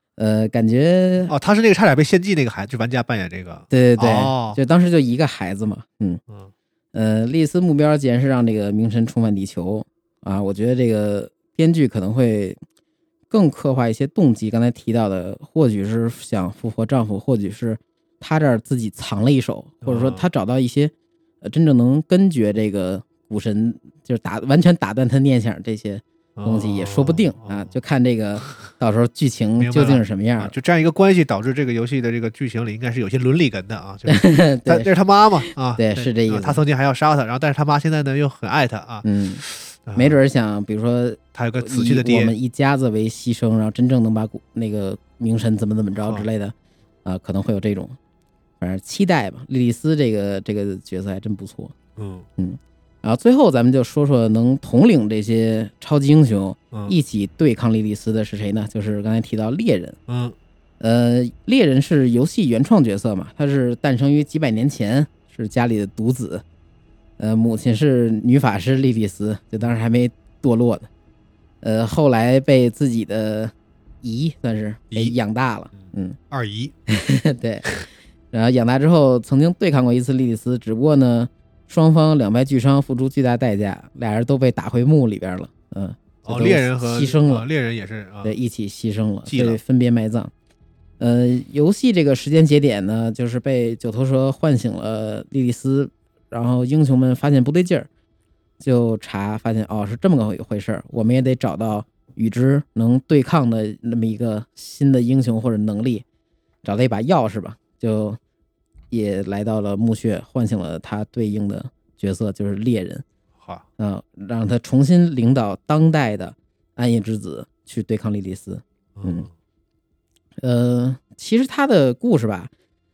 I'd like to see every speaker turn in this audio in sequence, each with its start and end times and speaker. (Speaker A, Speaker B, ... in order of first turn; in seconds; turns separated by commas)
Speaker A: 0.2-1.3, Speaker B: 1.3-4.6, Speaker A: 3.7-6.2, Speaker A: 6.9-12.6, Speaker A: 13.3-30.5, Speaker B: 19.8-20.3, Speaker B: 26.4-27.7, Speaker B: 29.6-40.2, Speaker A: 34.1-34.9, Speaker A: 35.5-36.6, Speaker A: 39.0-39.4, Speaker A: 39.9-46.5, Speaker B: 41.3-42.3, Speaker B: 46.0-46.3, Speaker A: 47.0-48.0, Speaker A: 48.6-51.7, Speaker B: 52.0-52.3, Speaker A: 52.4-60.0, Speaker B: 60.1-60.4, Speaker A: 60.8-66.4, Speaker A: 67.2-70.9, Speaker A: 71.6-76.2, Speaker B: 75.7-76.7, Speaker A: 76.9-77.7, Speaker A: 78.3-87.5, Speaker B: 86.2-88.3, Speaker A: 88.2-90.3, Speaker B: 89.2-89.6, Speaker A: 91.0-97.9, Speaker A: 98.6-106.0, Speaker A: 106.6-108.2, Speaker A: 108.9-113.0, Speaker B: 113.4-113.7, Speaker A: 113.8-119.3, Speaker B: 119.0-119.3, Speaker A: 120.4-122.5